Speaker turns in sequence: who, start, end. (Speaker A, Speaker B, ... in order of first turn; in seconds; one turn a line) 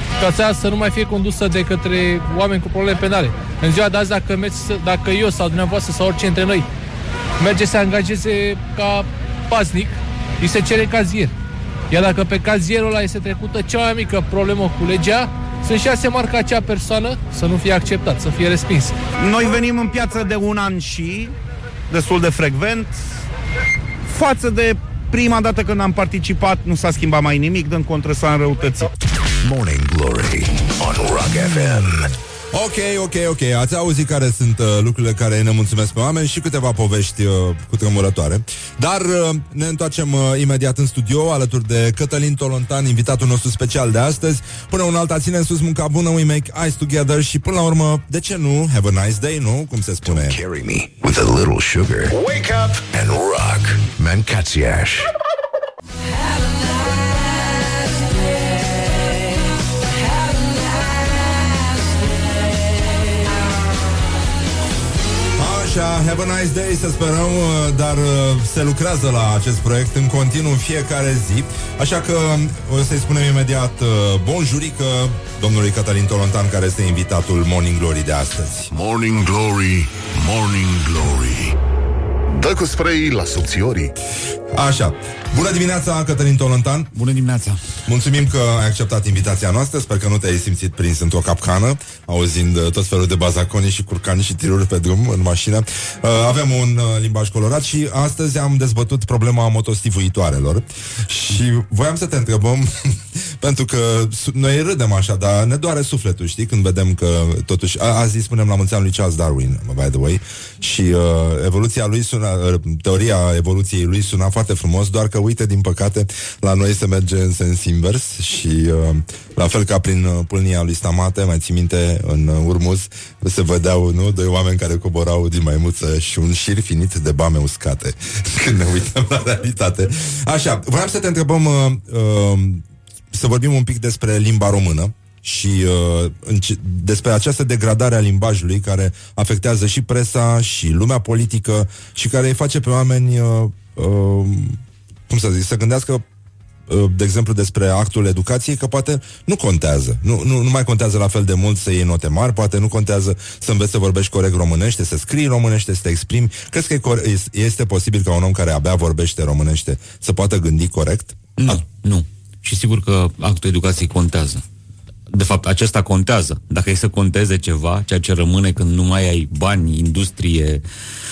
Speaker A: 0.2-6.7
Speaker A: 7.4-11.3
Speaker A: 11.9-18.9
Speaker B: 19.2-21.3
Speaker B: 21.9-23.0
Speaker B: 24.1-28.9
Speaker C: 29.4-32.1
Speaker D: 32.5-50.4
Speaker C: 50.0-55.1
Speaker B: 52.2-52.6
Speaker D: 65.3-78.7
Speaker E: 78.7-81.5
Speaker E: 82.3-83.9
Speaker D: 84.5-86.9
Speaker F: 86.9-87.6
Speaker D: 87.8-144.6
Speaker D: 145.1-146.0
Speaker D: 146.7-161.6
Speaker F: 161.4-164.4
Speaker F: 165.1-170.6